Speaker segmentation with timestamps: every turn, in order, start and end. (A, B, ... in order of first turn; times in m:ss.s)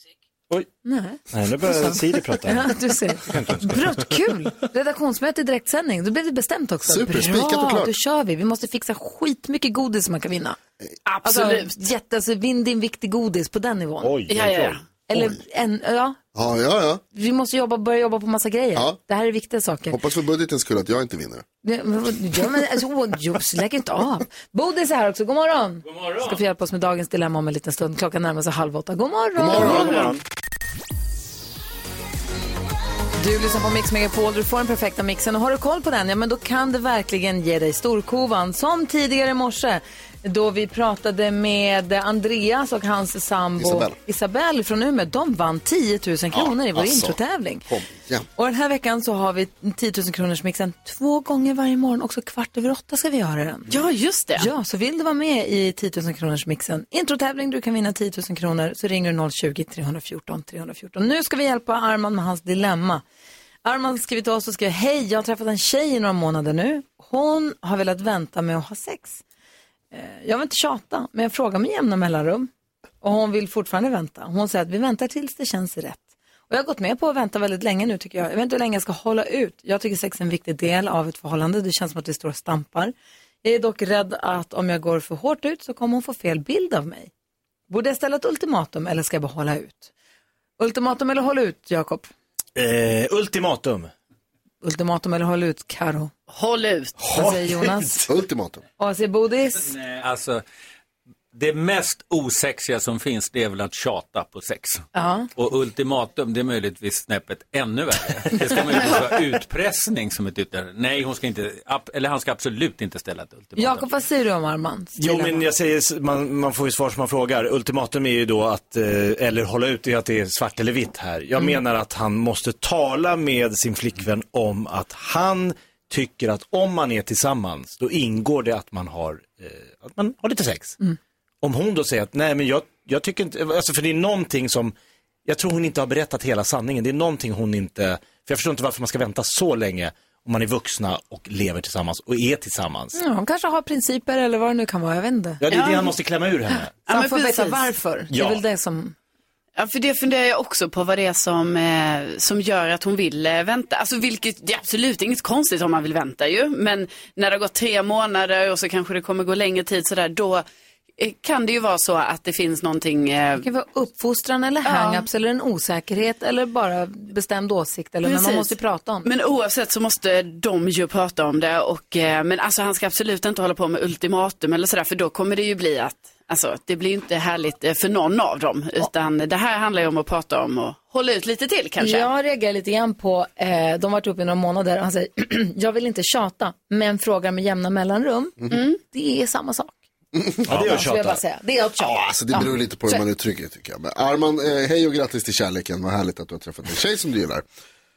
0:00.8-0:10.6 A
0:01.3-0:04.0 B
0:06.8-0:07.9 C
0:11.1-0:11.7 D
0:11.2-0:14.1 A
0:14.0-0:14.8 B
0:14.3-0:14.8 D
0:15.1-0:16.2 A
0:15.1-0:15.4 C
0:16.3-0:17.0 C
0:17.1-0:20.0 A
0:19.9-0:21.4 C
0:21.6-0:30.1 A
0:25.9-0:26.4 E
0:29.4-0:30.2 C
0:29.5-0:30.2 B
0:33.2-0:47.7 A
0:43.6-0:44.0 C
0:46.3-0:48.3 C
0:48.4-0:53.7 A
0:53.7-0:54.5 D
0:54.4-1:03.0 A
1:03.6-1:09.2 A
1:09.9-1:12.5 A
1:13.0-1:27.1 A
1:27.7-1:29.9 A
1:30.6-1:32.1 A
1:32.6-1:33.9 B
1:34.6-1:36.1 A
1:36.3-1:37.0 D
1:37.0-1:37.7 B
1:37.1-1:38.1 A
1:38.1-1:38.6 C
1:38.8-1:39.7 A
1:39.6-1:40.4 E
1:41.3-1:53.9 E
1:44.9-1:45.3 A
1:53.6-1:55.5 A
1:55.0-2:10.8 B
2:11.4-2:14.7 B
2:15.3-2:23.0 B
2:22.9-2:25.4 A
2:25.4-2:26.7 B
2:25.5-2:25.9 D
2:26.8-2:27.7 D
2:26.8-2:29.0 A
2:28.1-2:28.4 B
2:29.6-2:40.4 D
2:41.0-2:43.4 D
2:43.4-2:49.1 A
2:44.6-2:45.0 D
2:48.0-2:48.5 D
2:49.0-3:02.1 D
3:01.8-3:09.8 A
3:08.5-3:08.8 D
3:10.2-3:10.7 C
3:10.5-3:11.2 B
3:10.5-3:13.0 A
3:11.8-3:17.4 C